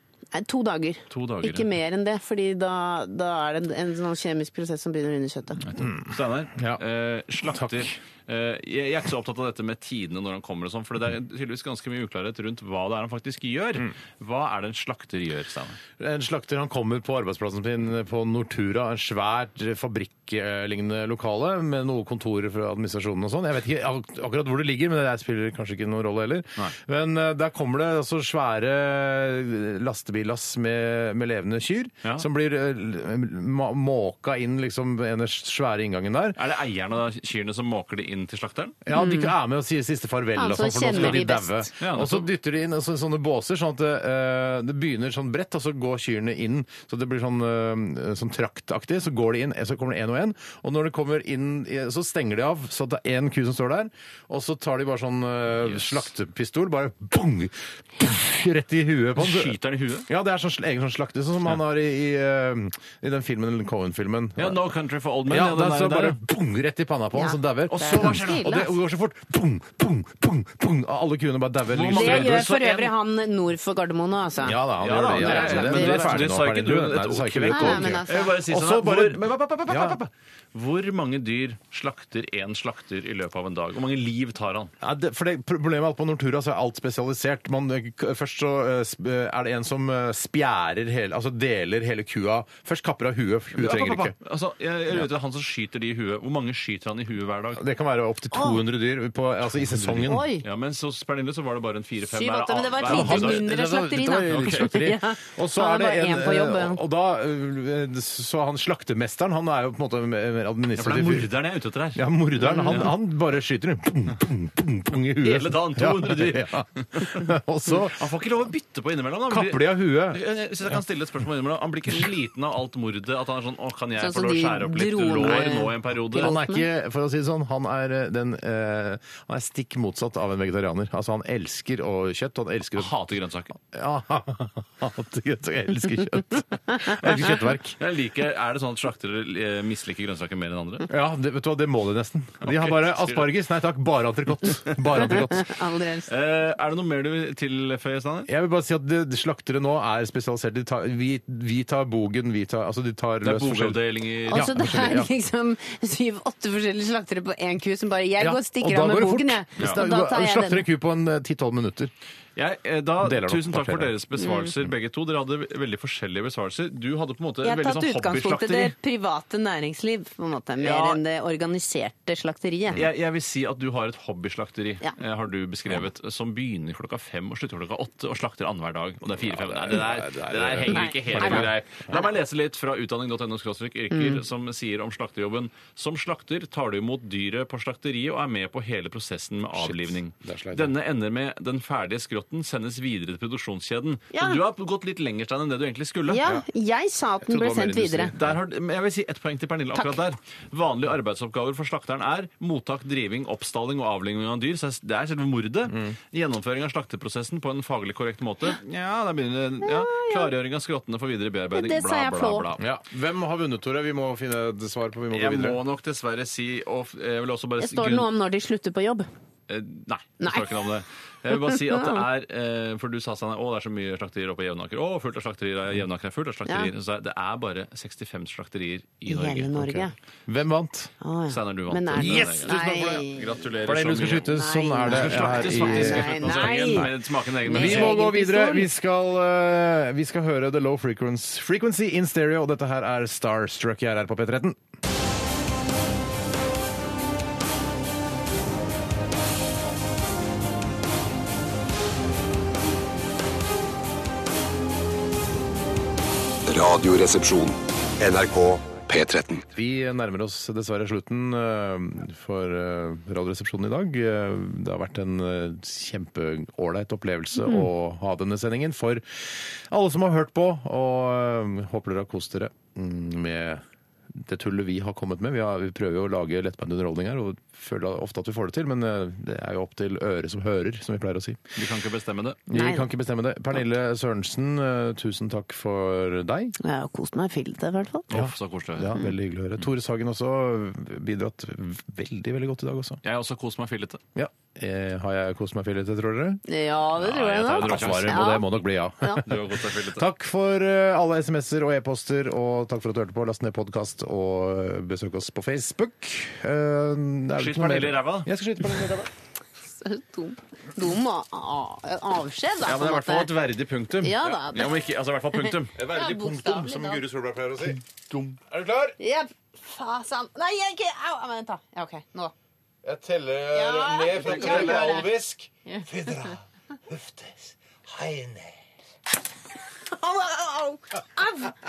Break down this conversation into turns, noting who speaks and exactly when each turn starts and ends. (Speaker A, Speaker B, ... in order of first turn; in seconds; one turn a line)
Speaker A: 0.3-5.6
Speaker B: 1.1-1.7
Speaker B: 5.6-15.8
Speaker C: 5.8-6.8
Speaker C: 7.5-7.9
Speaker C: 16.0-36.4
Speaker B: 36.4-38.8
Speaker C: 38.9-64.6
Speaker A: 38.9-39.3
Speaker A: 40.4-41.7
Speaker B: 40.9-41.2
Speaker B: 41.8-42.3
Speaker B: 55.6-56.1
Speaker B: 59.2-60.1
Speaker B: 64.4-66.2
Speaker C: 65.3-72.5
Speaker A: 67.1-68.6
Speaker B: 67.7-68.7
Speaker B: 71.7-72.9
Speaker A: 71.9-76.3
Speaker C: 74.4-80.0
Speaker B: 74.8-84.7
Speaker A: 77.5-78.4
Speaker C: 84.8-94.2
Speaker B: 93.5-97.6
Speaker C: 97.6-100.3
Speaker A: 98.3-98.6
Speaker B: 99.5-103.5
Speaker A: 100.1-100.5
Speaker A: 102.1-106.8
Speaker C: 102.8-111.3
Speaker B: 104.2-104.8
Speaker B: 110.8-113.0
Speaker C: 111.9-118.1
Speaker A: 112.4-112.8
Speaker B: 115.2-117.2
Speaker B: 117.7-126.3
Speaker C: 119.3-120.2
Speaker A: 124.0-126.7
Speaker C: 126.1-132.9
Speaker B: 132.8-133.6
Speaker C: 133.6-137.8
Speaker B: 137.8-140.9
Speaker C: 140.9-145.5
Speaker B: 142.4-143.3
Speaker B: 144.7-145.2
Speaker A: 145.0-146.1
Speaker B: 146.1-148.3
Speaker C: 148.3-155.1
Speaker B: 153.2-155.0
Speaker A: 154.3-160.7
Speaker C: 158.2-161.9
Speaker B: 162.4-168.7
Speaker C: 163.0-163.9
Speaker A: 164.2-164.5
Speaker A: 167.4-172.8
Speaker B: 170.6-171.0
Speaker B: 172.7-196.3
Speaker C: 179.2-182.0
Speaker A: 180.7-182.1
Speaker A: 183.9-184.2
Speaker C: 189.5-190.7
Speaker A: 194.1-194.4
Speaker A: 196.1-198.1
Speaker C: 197.2-198.4
Speaker B: 198.2-212.7
Speaker A: 199.8-200.0
Speaker C: 205.7-206.0
Speaker A: 209.6-210.3
Speaker A: 211.5-212.5
Speaker C: 212.6-215.6
Speaker B: 215.1-218.1
Speaker A: 217.6-219.1
Speaker B: 219.5-229.9
Speaker A: 220.2-220.5
Speaker A: 221.3-222.1
Speaker A: 226.5-226.7
Speaker A: 229.1-229.9
Speaker C: 230.3-230.9
Speaker A: 231.0-233.4
Speaker B: 231.3-234.3
Speaker C: 231.9-233.1
Speaker C: 233.6-236.9
Speaker A: 234.2-236.9
Speaker B: 234.8-238.0
Speaker A: 237.4-238.7
Speaker C: 237.5-244.6
Speaker D: 256.5-259.4
Speaker C: 259.5-273.6
Speaker C: 274.2-281.6
Speaker B: 281.6-282.4
Speaker C: 282.5-286.6
Speaker A: 282.5-282.9
Speaker A: 286.6-288.1
Speaker B: 288.1-288.9
Speaker C: 288.1-293.0
Speaker B: 293.0-294.0
Speaker C: 294.2-296.4
Speaker A: 296.5-298.5
Speaker B: 297.0-298.4
Speaker C: 297.4-309.1
Speaker B: 299.2-300.1
Speaker B: 307.4-308.3
Speaker A: 309.7-313.3
Speaker B: 312.6-315.8
Speaker A: 314.0-314.8
Speaker C: 315.8-317.8
Speaker A: 315.8-317.0
Speaker B: 317.6-318.4
Speaker C: 318.4-319.0
Speaker A: 319.0-322.3
Speaker C: 322.8-328.6
Speaker A: 323.5-325.1
Speaker B: 324.2-324.8
Speaker A: 325.7-326.1
Speaker A: 329.9-331.6